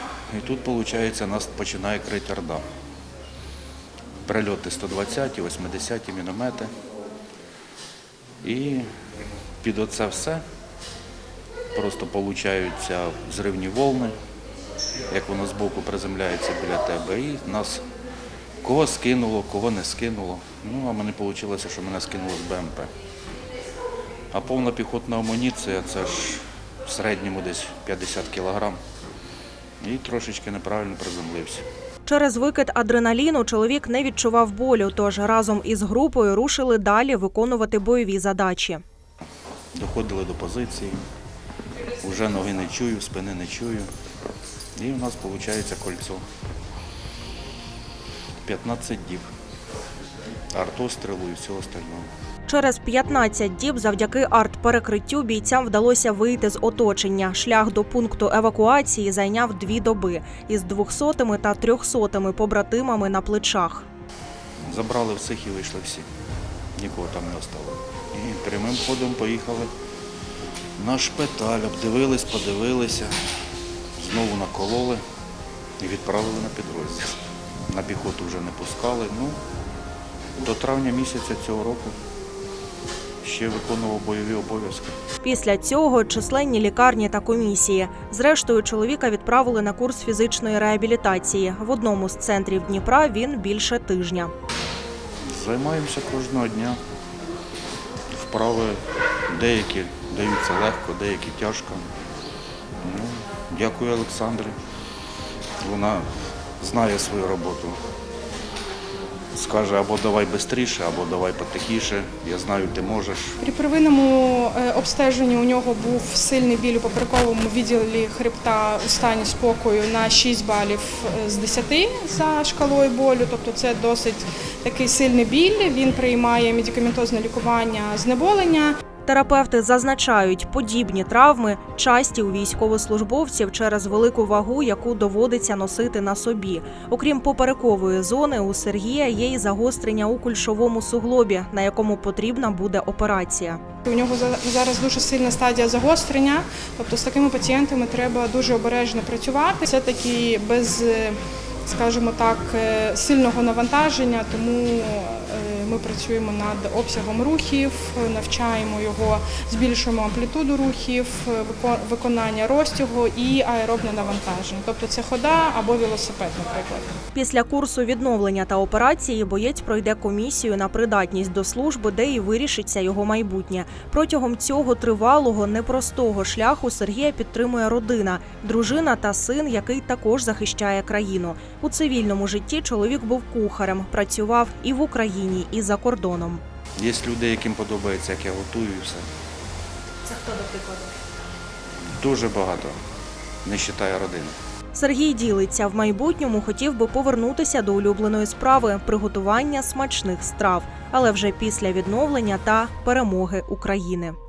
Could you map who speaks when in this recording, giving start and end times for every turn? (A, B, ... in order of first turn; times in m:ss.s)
0:00.3-0:02.6 A
0:04.2-0:06.7 A
0:08.4-0:08.9 A
0:09.6-0:10.4 A
0:11.7-0:14.1 A
0:15.1-0:17.8 A
0:18.6-0:22.9 A
0:24.3-0:28.8 A
0:29.8-0:31.6 A
0:32.0-0:38.8 B
0:39.7-0:41.0 A
0:42.0-0:43.9 A
0:44.8-0:46.2 A
0:48.4-0:49.3 A
0:50.5-0:52.1 A
0:52.5-1:03.9 B
1:04.7-1:06.1 A
1:06.8-1:09.7 A
1:10.8-1:13.2 A
1:14.0-1:15.0 A
1:15.8-1:19.4 A
1:20.4-1:22.0 A
1:23.2-1:24.9 A
1:25.2-1:34.3 B
1:35.3-1:36.8 A
1:38.1-1:41.9 A
1:42.8-1:44.6 A
1:45.6-1:46.1 A
1:46.6-1:47.8 A
1:49.3-1:53.4 A
1:53.4-2:08.8 C
2:09.0-2:23.6 B
2:23.8-2:47.0 C
2:47.1-3:06.4 B
3:06.8-3:09.1 A
3:10.0-3:10.8 B
3:12.0-3:12.8 A
3:13.4-3:14.3 A
3:14.7-3:24.2 B